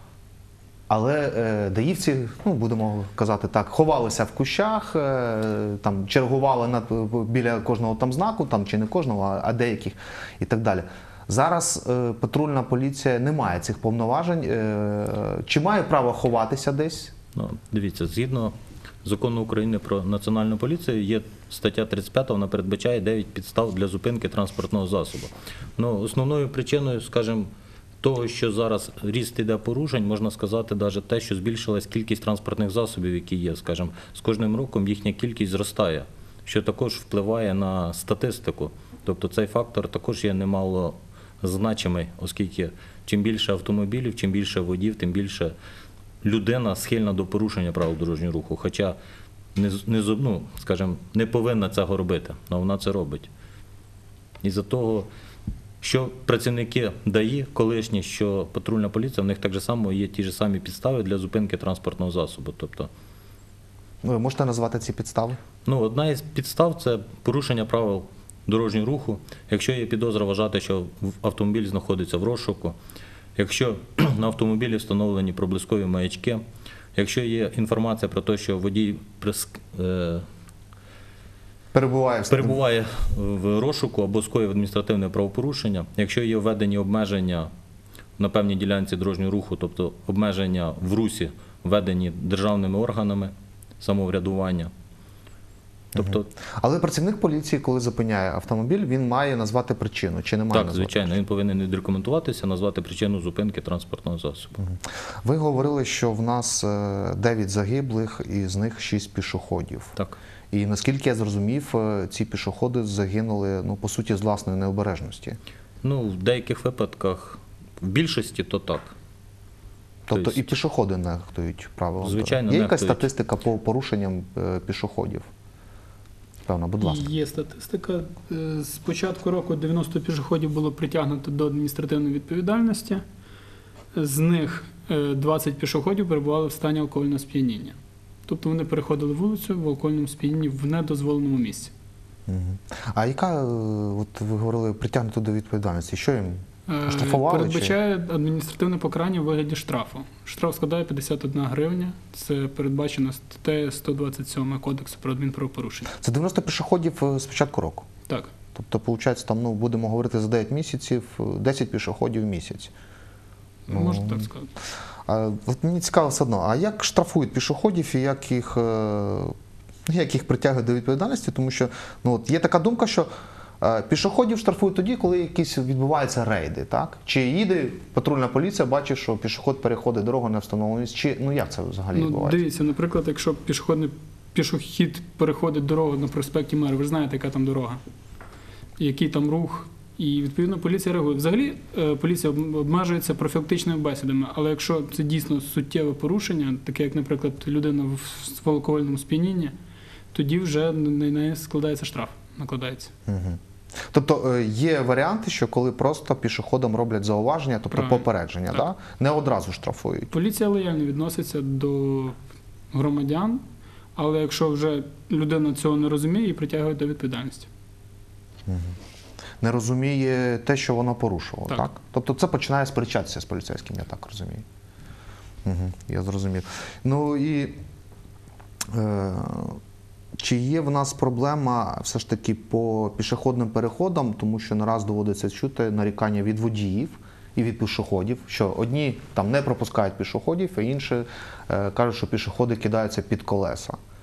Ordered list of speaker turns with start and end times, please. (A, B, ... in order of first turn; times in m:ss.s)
0:00.9-0:17.1 A
0:17.4-0:27.5 B
0:28.0-0:45.6 B
0:46.2-0:49.0 B
0:49.6-0:53.3 B
0:54.4-0:55.1 B
0:55.8-1:02.9 B
1:04.0-1:05.4 A
1:05.6-1:12.8 B
1:13.4-1:16.4 B
1:16.9-1:20.2 B
1:21.7-1:22.6 A
1:22.3-1:27.5 B
1:28.2-1:34.7 B
1:35.9-1:36.3 B
1:35.9-1:41.1 A
1:40.5-1:44.6 B
1:44.6-1:49.9 A
1:50.5-1:55.4 A
1:55.8-1:59.0 B
2:00.1-2:05.3 A
2:00.1-2:00.5 B
2:02.0-2:03.1 B
2:06.4-2:07.1 A
2:06.8-2:13.0 C
2:13.9-2:17.8 C
2:18.3-2:21.7 C
2:22.3-2:27.7 A
2:26.7-2:35.9 C
2:36.0-2:37.9 A
2:38.6-2:42.7 A
2:43.7-2:44.5 C
2:43.7-2:44.3 A
2:45.1-2:49.4 A
2:49.9-2:53.1 A
2:53.6-3:02.4 A
3:01.9-3:07.8 C
3:08.8-3:19.5 C
3:20.1-3:22.9 C
3:23.1-3:30.1 A
3:27.7-3:28.6 C
3:30.1-3:32.2 C
3:32.7-3:33.4 C
3:34.0-3:37.5 C
3:38.5-3:38.8 A
3:39.4-3:44.4 A
3:45.4-3:47.6 A
3:48.6-3:49.6 A
3:50.2-4:03.8 A